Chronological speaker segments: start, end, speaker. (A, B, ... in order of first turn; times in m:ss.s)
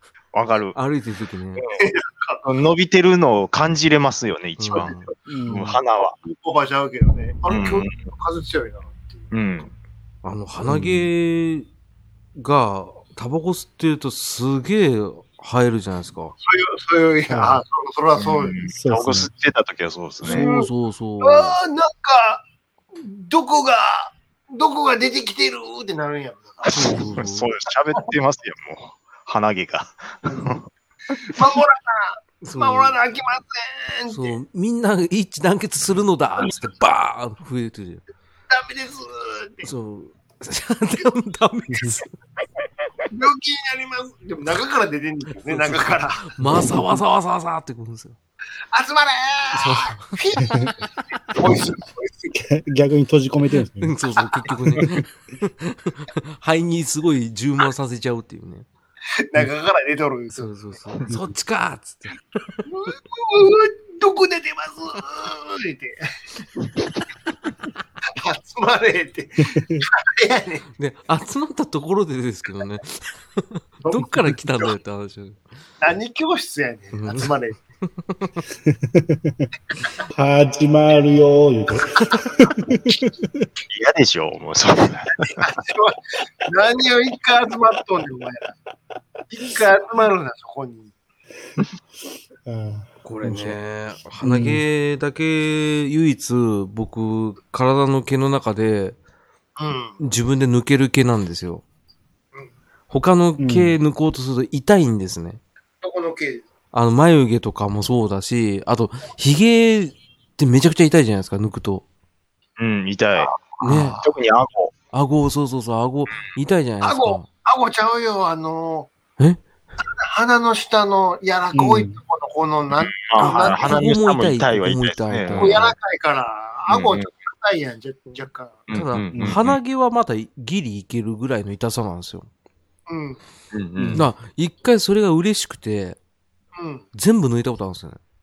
0:00.3-0:00.8 A
0:00.7-0:01.6 B
0:01.7-0:02.4 C
0:02.4-0:06.2 A
0:04.6-0:05.1 B
0:05.3-0:05.8 D
0:06.3-0:09.3 C
0:07.5-0:08.0 A
0:09.3-0:09.7 A
0:10.2-0:11.7 B
0:10.7-0:11.1 D
0:12.4-0:16.4 B
0:16.4-0:18.6 C
0:17.3-0:17.6 D
0:18.2-0:20.5 A
0:18.7-0:19.3 D
0:20.2-0:21.6 B
0:20.2-0:20.7 C
0:21.2-0:22.4 C
0:22.9-0:26.9 C
0:26.7-0:30.6 A
0:26.7-0:27.5 B
0:31.2-0:31.4 A
0:31.2-0:34.4 C
0:32.4-0:33.0 B
0:34.1-0:38.0 B
0:38.5-0:39.7 C
0:39.6-0:42.2 B
0:43.1-0:46.3 C
0:45.4-0:48.2 B
0:48.7-0:52.3 C
0:49.5-0:50.2 B
0:50.4-0:50.7 D
0:52.3-0:54.0 D
0:53.6-0:58.7 B
0:54.2-0:54.6 C
0:59.2-1:00.5 C
1:00.3-1:02.6 B
1:02.7-1:06.1 C
1:08.2-1:10.6 C
1:09.6-1:09.8 D
1:10.8-1:15.5 B
1:13.8-1:14.7 C
1:15.8-1:17.6 C
1:16.9-1:18.4 B
1:18.7-1:19.5 D
1:20.1-1:23.5 D
1:23.7-1:25.4 A
1:25.2-1:28.6 C
1:29.3-1:30.9 C
1:32.4-1:33.6 D
1:33.0-1:39.0 B
1:34.2-1:34.6 D
1:39.6-1:40.0 C
1:40.0-1:41.6 B
1:42.9-1:45.4 B
1:43.4-1:43.8 D
1:45.8-1:46.4 C
1:46.7-1:51.8 B
1:52.6-1:54.7 A
1:53.2-1:54.1 C
1:53.6-1:54.0 B
1:54.9-1:57.3 B
1:56.8-1:58.9 C
1:59.9-2:04.0 C
2:01.5-2:02.0 D
2:02.8-2:05.7 A
2:03.2-2:05.7 B
2:05.4-2:08.6 C
2:06.7-2:07.1 A
2:08.7-2:09.6 A
2:08.7-2:12.3 B
2:09.1-2:09.4 D
2:12.9-2:13.2 C
2:13.5-2:14.1 A
2:13.8-2:14.1 D
2:13.9-2:16.0 B
2:16.6-2:16.8 C
2:16.9-2:18.0 B